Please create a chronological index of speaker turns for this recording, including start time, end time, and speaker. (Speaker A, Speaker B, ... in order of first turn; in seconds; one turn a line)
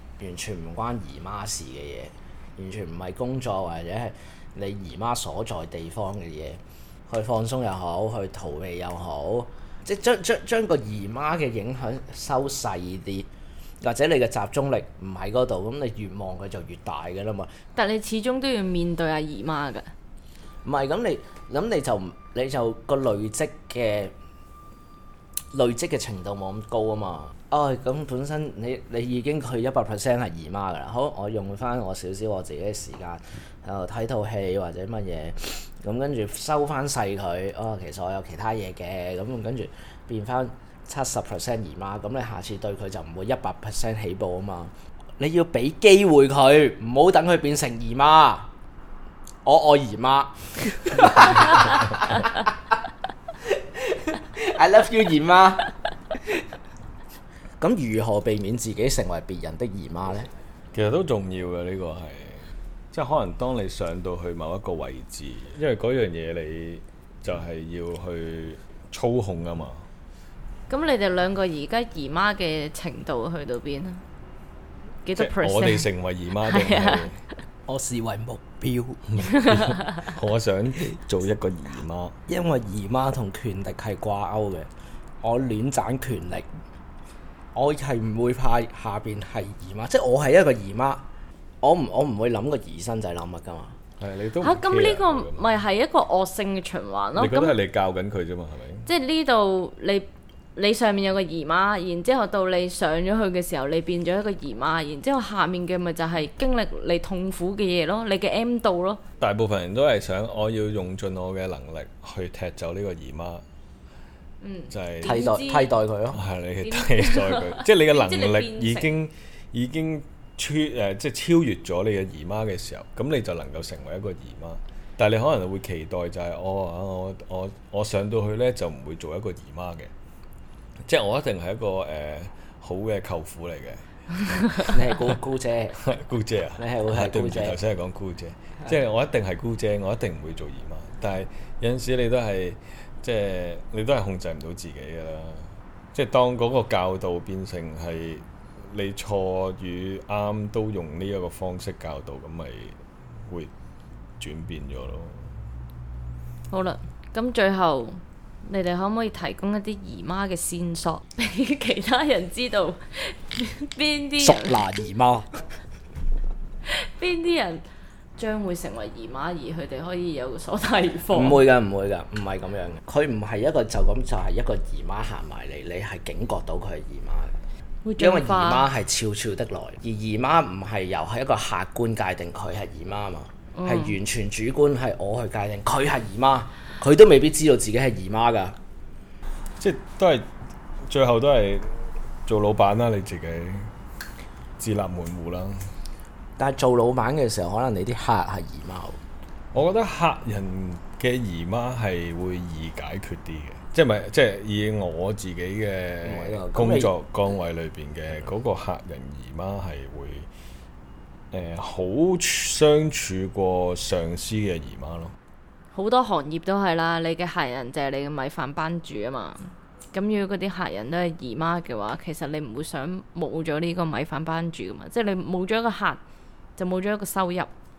Speaker A: 0.2-13.3
Speaker A: 13.8-17.5
Speaker B: 17.8-19.9
Speaker A: 20.6-24.1
Speaker A: 25.5-48.5
Speaker A: 49.4-52.7
Speaker A: 53.4-55.7
Speaker A: 57.6-60.3
Speaker C: 60.7-69.8
Speaker B: 70.7-74.0
Speaker B: 75.0-75.8
Speaker C: 75.2-77.2
Speaker B: 76.4-77.1
Speaker A: 77.7-79.0
Speaker C: 79.1-82.2
Speaker B: 79.3-80.0
Speaker A: 82.3-84.7
Speaker A: 85.2-86.5
Speaker A: 87.5-91.0
Speaker A: 91.6-93.8
Speaker C: 94.0-95.5
Speaker B: 94.4-97.5
Speaker C: 97.2-98.9
Speaker B: 98.8-109.0
Speaker C: 109.2-113.4
Speaker B: 114.4-115.7
Speaker C: 114.7-115.3
Speaker A: 115.0-116.2
Speaker C: 116.1-129.9
Speaker B: 116.6-118.9
Speaker C: 130.8-134.8
Speaker A: 134.6-135.8
Speaker C: 135.8-153.5
Speaker A: 136.6-137.6
Speaker C: 154.2-155.3
Speaker B: 156.5-164.6
Speaker A: 164.2-165.4
Speaker B: 166.7-167.6
Speaker B: 168.2-171.4
Speaker A: 171.1-177.3
Speaker B: 177.8-178.7
Speaker A: 178.0-188.6
Speaker B: 183.5-183.9
Speaker C: 189.6-190.2
Speaker C: 190.9-193.7
Speaker C: 194.6-195.7
Speaker A: 196.4-199.0
Speaker C: 199.5-210.3
Speaker A: 206.0-206.9
Speaker C: 211.3-215.1
Speaker B: 215.7-226.0
Speaker B: 226.6-227.5